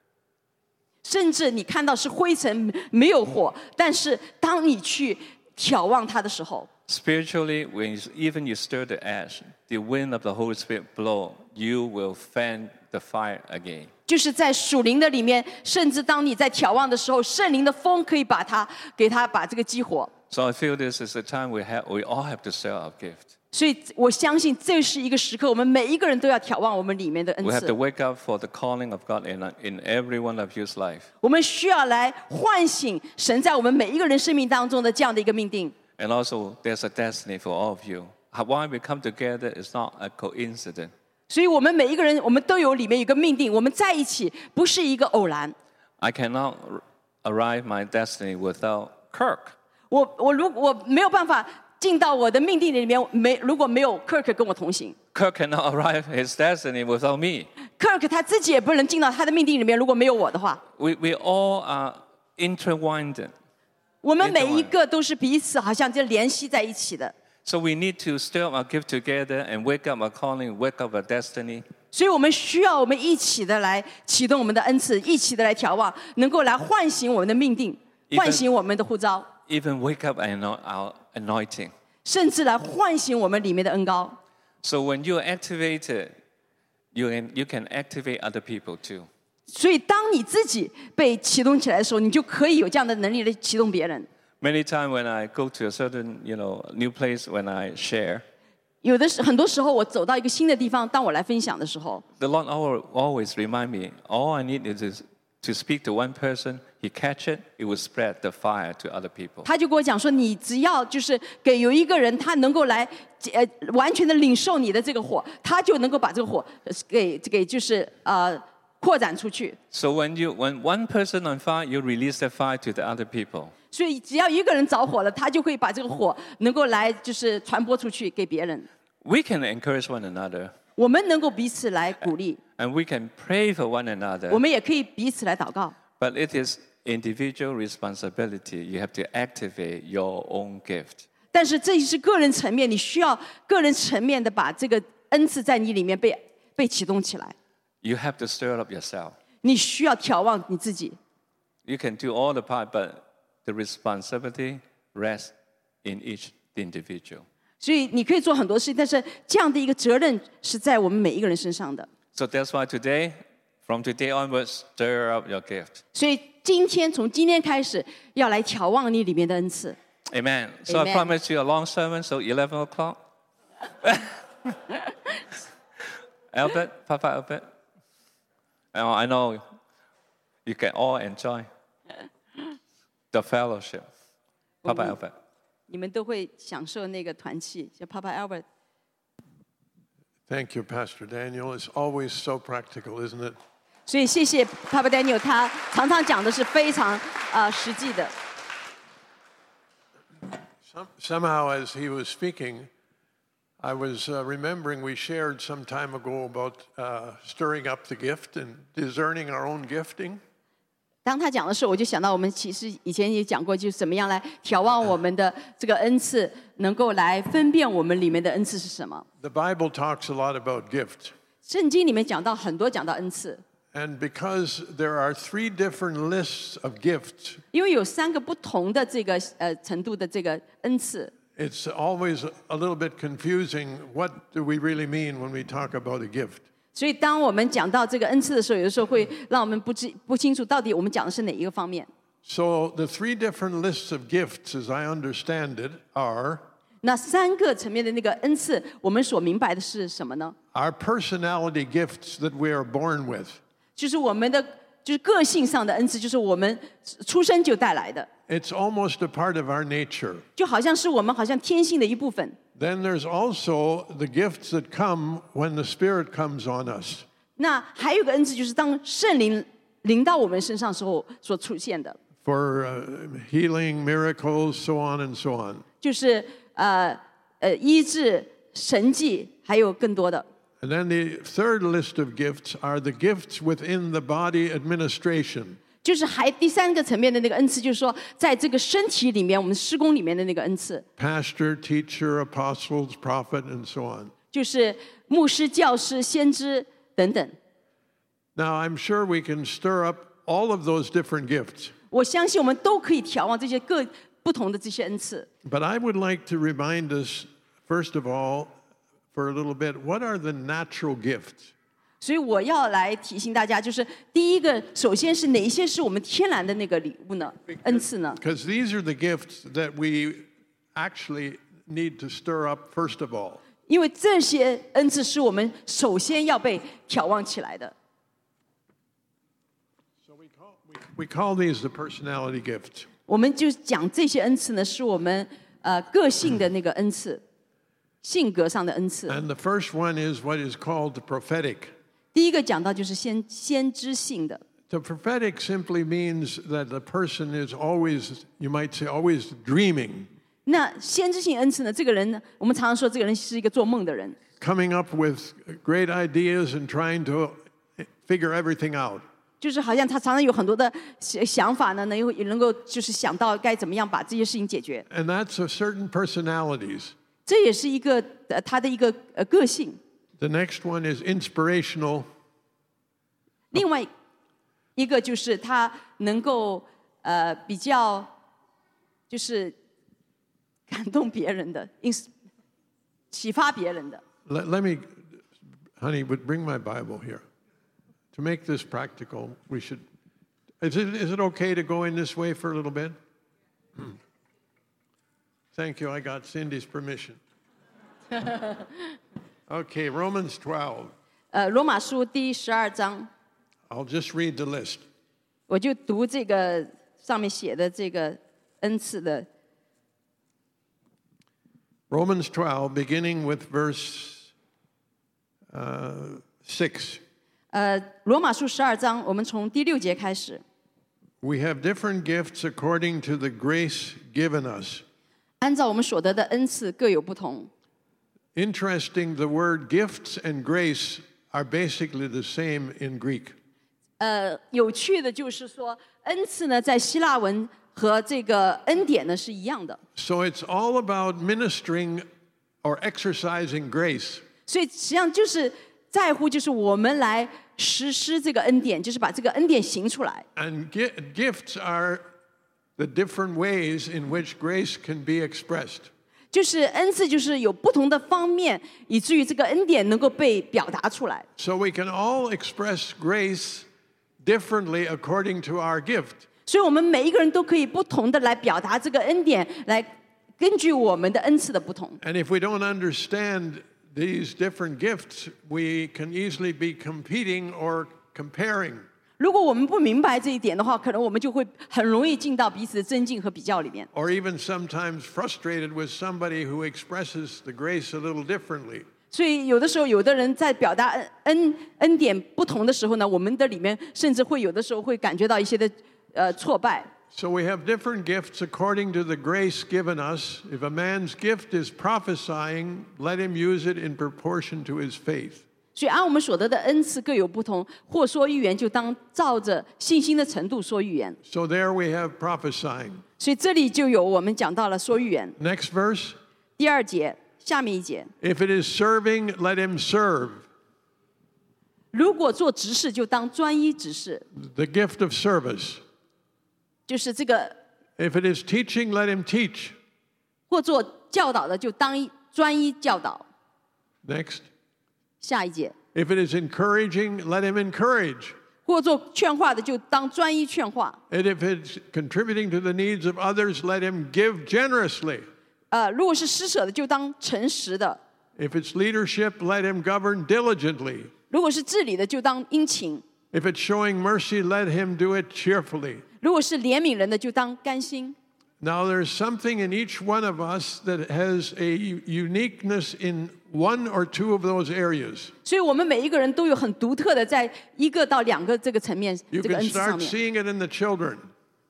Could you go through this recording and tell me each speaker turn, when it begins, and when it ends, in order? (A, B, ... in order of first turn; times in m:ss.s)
0:01.0-0:06.7 A
0:06.9-0:13.9 B
0:14.1-0:20.1 A
0:20.3-0:23.3 B
0:23.5-0:27.8 A
0:27.4-0:31.1 B
0:31.2-0:35.8 A
0:36.0-0:40.9 B
0:41.3-0:45.6 A
0:46.0-0:49.6 B
0:49.9-0:55.0 A
0:55.1-0:57.5 B
0:57.8-1:00.6 A
1:00.8-1:03.3 B
1:04.0-1:07.1 A
1:04.2-1:04.7 B
1:07.4-1:11.7 B
1:11.9-1:19.3 A
1:18.1-1:18.4 B
1:19.5-1:21.7 B
1:22.0-1:24.2 A
1:24.6-1:26.1 B
1:26.9-1:29.1 B
1:29.5-1:34.1 A
1:34.4-1:38.2 B
1:38.8-1:42.0 A
1:42.2-1:49.5 B
1:49.4-1:59.6 A
1:59.7-2:03.5 B
2:03.7-2:08.7 A
2:09.0-2:10.5 B
2:10.8-2:12.4 A
2:12.6-2:14.4 B
2:14.3-2:15.8 A
2:15.9-2:21.0 B
2:21.3-2:27.3 A
2:27.8-2:29.2 B
2:29.4-2:31.0 A
2:31.6-2:35.3 B
2:35.8-2:37.2 B
2:37.6-2:41.9 A
2:42.1-2:45.8 B
2:46.0-2:49.8 A
2:50.1-2:53.0 B
2:50.7-2:51.1 A
2:53.8-2:54.1 B
2:56.3-2:57.5 B
2:58.7-2:59.4 B
3:00.5-3:01.5 B
3:03.1-3:03.9 B
3:04.6-3:05.0 A
3:04.6-3:05.1 B
3:05.7-3:08.4 A
3:10.3-3:13.4 C
3:13.9-3:18.1 A
3:20.6-3:22.7 C
3:23.6-3:30.2 C
3:31.0-3:39.1 A
3:39.2-3:41.1 C
3:41.5-3:43.4 A
3:43.7-3:47.4 C
3:47.5-3:51.1 A
3:51.4-3:56.5 C
3:56.8-4:01.9 A
4:02.2-4:06.5 C
4:06.8-4:10.4 A
4:10.5-4:13.4 C
4:13.8-4:18.1 A
4:18.3-4:20.2 C
4:20.4-4:22.4 A
4:22.6-4:27.1 C
4:27.4-4:32.0 A
4:32.2-4:35.6 C
4:35.8-4:40.2 A
4:40.6-4:45.6 C
4:45.8-4:50.8 A
4:51.0-4:54.1 C
4:54.3-4:57.4 A
4:58.4-5:01.7 C
5:01.9-5:05.3 A
5:05.4-5:08.5 C
5:09.1-5:11.5 C
5:12.0-5:18.2 A
5:18.2-5:23.4 C
5:23.7-5:27.7 A
5:30.0-5:32.9 C
5:33.1-5:37.2 A
5:38.0-5:39.2 A
5:39.1-5:41.7 C
5:42.1-5:44.4 A
5:44.7-5:50.1 C
5:50.5-5:54.2 A
5:54.4-5:59.0 C
5:59.4-6:04.9 A
6:04.9-6:06.9 C
6:07.3-6:09.8 A
6:10.2-6:12.1 C
6:13.5-6:13.9 A
6:14.8-6:18.1 A
6:19.1-6:19.5 A
6:20.7-6:22.1 A
6:23.1-6:24.0 A
6:24.3-6:25.0 C
6:25.8-6:27.2 C
6:28.1-6:29.8 C
6:30.6-6:33.0 C
6:35.5-6:37.2 C
6:39.5-6:40.9 C
6:41.3-6:43.1 A
6:43.7-6:44.8 C
6:45.5-6:49.3 A
6:51.9-6:54.3 C
6:55.5-6:57.0 C
6:57.5-7:00.4 A
7:01.2-7:04.8 C
7:05.4-7:07.5 A
7:08.4-7:13.4 C
7:14.0-7:19.8 A
7:20.0-7:22.0 C
7:22.6-7:24.2 C
7:24.5-7:30.2 A
7:30.4-7:32.0 C
7:32.8-7:35.9 C
7:36.3-7:41.2 A
7:41.4-7:43.7 C
7:44.2-7:46.3 C
7:46.5-7:52.0 A
7:52.0-7:58.9 C
7:59.2-8:03.9 A
8:03.9-8:08.9 C
8:09.1-8:16.9 A
8:17.1-8:25.4 C
8:25.8-8:31.2 A
8:31.3-8:33.0 C
8:33.2-8:35.4 A
8:35.4-8:36.2 C
8:36.6-8:38.1 A
8:38.2-8:40.4 C
8:41.9-8:44.2 A
8:44.4-8:45.8 C
8:46.9-8:47.6 A
8:48.0-8:49.8 C
8:50.5-8:53.2 A
8:54.0-8:54.5 C
8:55.2-8:55.8 A
8:56.0-8:58.4 C
8:58.7-9:01.0 A
9:01.1-9:05.3 C
9:05.7-9:08.0 A
9:08.4-9:11.1 C
9:11.3-9:13.0 A
9:13.3-9:16.0 C
9:16.2-9:18.2 A
9:18.6-9:25.3 C
9:25.4-9:30.2 A
9:29.3-9:31.3 C